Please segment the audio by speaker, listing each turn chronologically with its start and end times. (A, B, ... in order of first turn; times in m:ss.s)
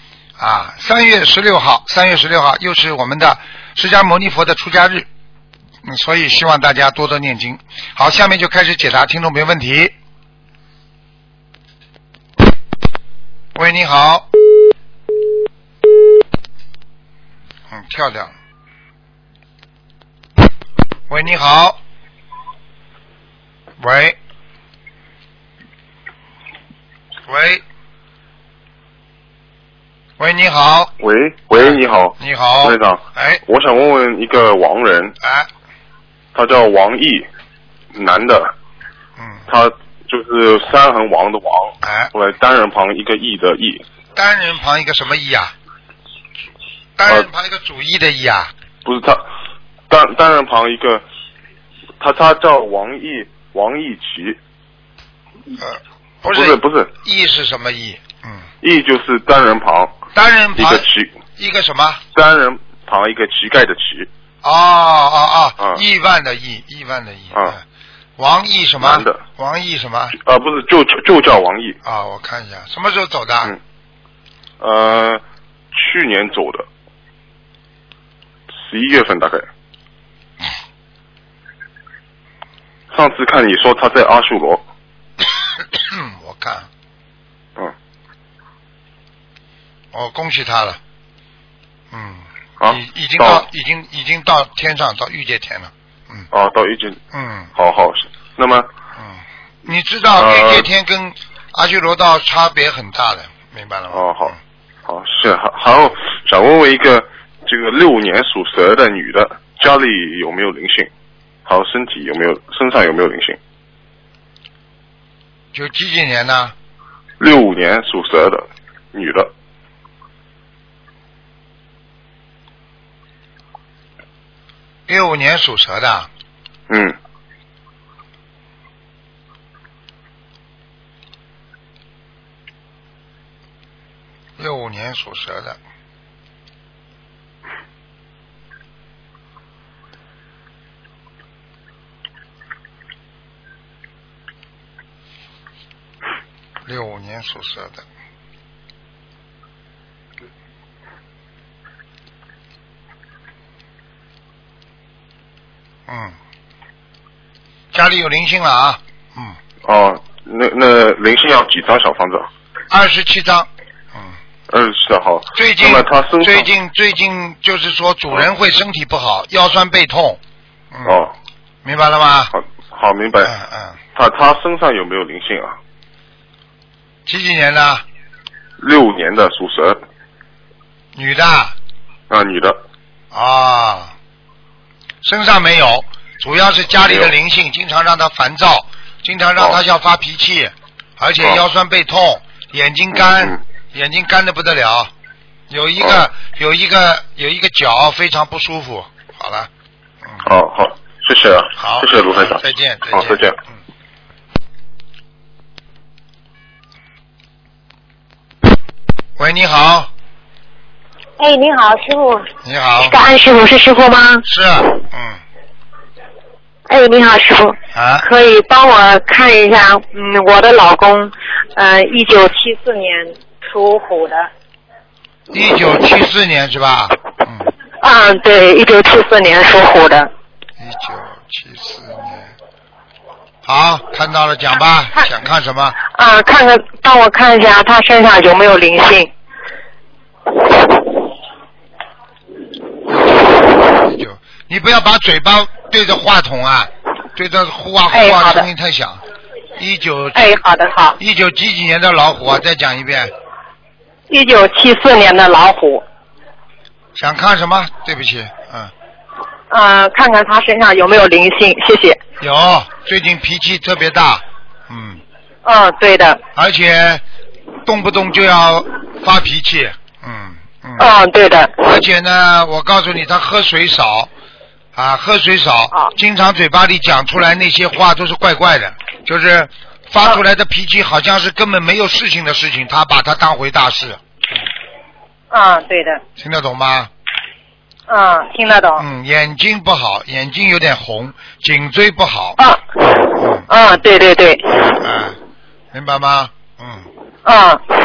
0:00.4-0:05.1 A
0:05.8-0:09.9 A
0:13.6-0:14.3 A
0:17.7-0:18.3 A
0:21.1-0:21.8 A
0:23.8-0:24.2 A
0:27.3-0:27.6 A
0:30.2-0:30.9 A
0:31.0-0:35.1 B
0:31.6-0:33.4 A
0:35.2-0:35.5 A
0:36.4-0:37.2 B
0:37.9-0:38.5 B
0:39.2-0:39.4 A
0:39.5-0:43.8 B
0:41.8-0:42.1 A
0:44.2-0:45.5 A
0:47.0-0:48.5 A
0:48.8-0:49.2 B
0:49.9-0:51.0 B
0:52.0-0:54.4 B
0:55.6-0:58.4 A
0:56.3-0:56.9 B
0:58.6-1:00.0 B
1:00.2-1:02.0 A
1:00.6-1:01.1 B
1:02.1-1:04.1 B
1:04.4-1:07.6 A
1:08.2-1:10.2 A
1:08.8-1:09.2 B
1:10.2-1:11.8 B
1:11.8-1:13.6 A
1:14.6-1:15.2 B
1:15.7-1:16.7 B
1:18.6-1:19.5 B
1:22.9-1:24.6 B
1:25.8-1:26.7 A
1:29.9-1:30.8 A
1:31.9-1:36.3 A
1:32.6-1:33.4 B
1:36.3-1:37.0 B
1:37.1-1:37.5 A
1:37.6-1:38.7 B
1:39.0-1:44.4 A
1:40.2-1:40.7 B
1:43.9-1:44.3 B
1:44.9-1:50.9 B
1:51.5-1:53.4 B
1:55.5-1:56.5 A
1:57.2-1:59.3 B
2:04.9-2:06.1 A
2:06.7-2:07.0 B
2:14.4-2:15.6 A
2:26.7-2:27.8 A
2:35.9-2:36.2 A
2:37.7-2:39.4 A
2:39.6-2:42.3 B
2:42.7-2:44.1 A
2:44.5-2:46.5 B
2:45.4-2:50.2 A
2:50.7-2:51.0 A
2:50.8-2:51.1 B
2:51.6-2:52.3 A
2:52.3-2:53.3 B
2:53.2-2:53.8 A
2:54.0-2:55.6 B
2:57.1-2:57.8 A
2:58.6-2:59.8 B
3:01.0-3:01.6 A
3:02.1-3:02.6 B
3:03.1-3:03.9 A
3:05.0-3:14.9 A
3:06.8-3:07.1 B
3:13.0-3:13.4 B
3:15.5-3:19.5 A
3:20.2-3:23.4 B
3:21.6-3:23.3 A
3:29.2-3:29.9 A
3:31.2-3:32.3 C
3:32.4-3:33.0 A
3:32.8-3:34.2 C
3:34.2-3:35.2 A
3:36.7-3:44.3 C
3:37.7-3:38.1 A
3:45.3-3:47.5 A
3:47.8-3:50.1 C
3:50.6-3:52.3 A
3:53.4-3:55.8 A
3:56.0-3:59.1 C
4:02.9-4:09.0 A
4:07.9-4:08.5 C
4:09.6-4:10.3 A
4:10.2-4:11.0 C
4:11.0-4:13.1 A
4:14.1-4:15.8 C
4:17.0-4:18.7 A
4:19.5-4:22.0 C
4:22.2-4:25.0 A
4:25.4-4:26.2 C
4:26.4-4:27.0 A
4:27.6-4:30.9 A
4:30.8-4:31.6 C
4:31.6-4:34.1 A
4:34.8-4:44.0 A
4:45.3-4:46.0 C
4:46.2-4:46.9 A
4:47.9-4:48.8 C
4:48.8-4:53.5 A
4:52.4-4:52.7 C
4:53.5-4:54.6 C
4:54.5-4:55.2 A
4:55.7-4:56.9 A
4:57.3-4:57.6 C